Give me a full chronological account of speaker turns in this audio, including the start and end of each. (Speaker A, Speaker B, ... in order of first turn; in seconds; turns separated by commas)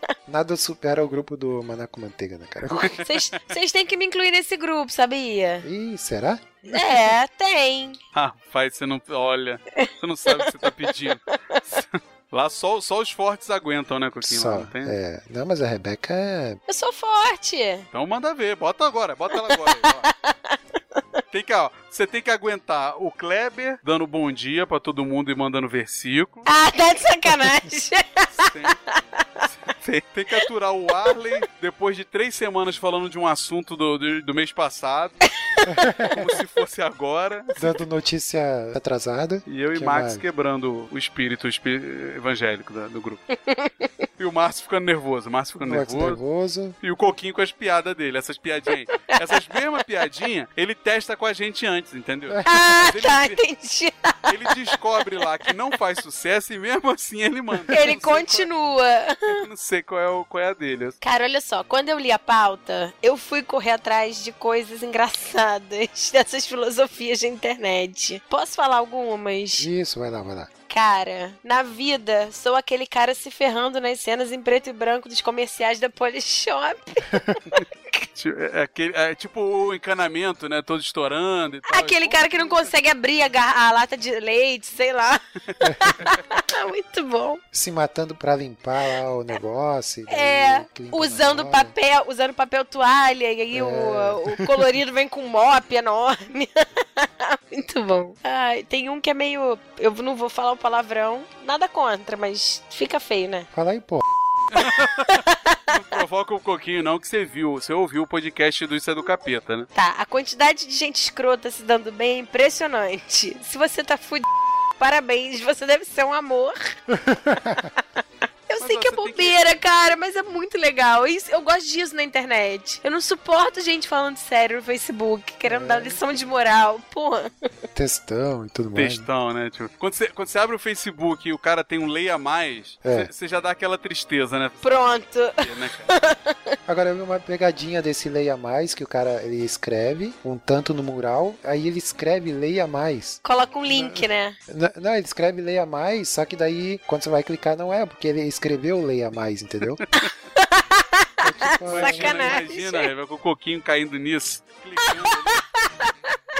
Speaker A: 0.3-3.0, Speaker B: 3.0-5.7, Speaker A: 5.6-6.6, Speaker B: 6.7-8.0, Speaker C: 8.1-15.0, Speaker B: 9.8-10.7, Speaker A: 14.2-16.6, Speaker B: 16.7-17.9, Speaker C: 17.9-20.1, Speaker B: 19.5-21.0, Speaker C: 21.3-26.5, Speaker B: 26.5-28.5, Speaker C: 28.3-28.8, Speaker B: 29.2-29.4, Speaker C: 29.4-35.3, Speaker A: 35.6-36.4, Speaker C: 36.1-37.6, Speaker A: 37.6-40.2, Speaker C: 39.5-43.2, Speaker B: 43.3-43.9, Speaker C: 44.2-46.2, Speaker A: 45.6-46.8, Speaker C: 46.8-53.4, Speaker A: 52.3-52.6, Speaker B: 52.5-54.3, Speaker C: 54.3-58.5, Speaker B: 57.7-59.4, Speaker C: 59.3-61.0, Speaker B: 61.0-69.7, Speaker A: 69.6-70.5, Speaker B: 70.7-78.0, Speaker A: 77.1-77.4, Speaker C: 78.2-82.7, Speaker B: 81.7-87.4, Speaker A: 85.6-86.0, Speaker A: 87.5-91.7, Speaker B: 90.1-103.5, Speaker A: 93.5-94.6, Speaker A: 103.5-104.0, Speaker C: 104.5-109.7, Speaker B: 105.0-105.7, Speaker B: 109.7-116.8, Speaker A: 116.9-117.7, Speaker B: 118.5-127.3, Speaker C: 118.6-119.4, Speaker A: 125.4-126.0, Speaker A: 127.7-129.1, Speaker C: 128.7-136.0, Speaker A: 132.8-133.1, Speaker B: 134.6-136.6, Speaker A: 136.7-149.8, Speaker B: 143.2-144.3, Speaker B: 150.3-152.9, Speaker A: 151.2-152.4, Speaker C: 151.7-155.4, Speaker B: 154.8-156.2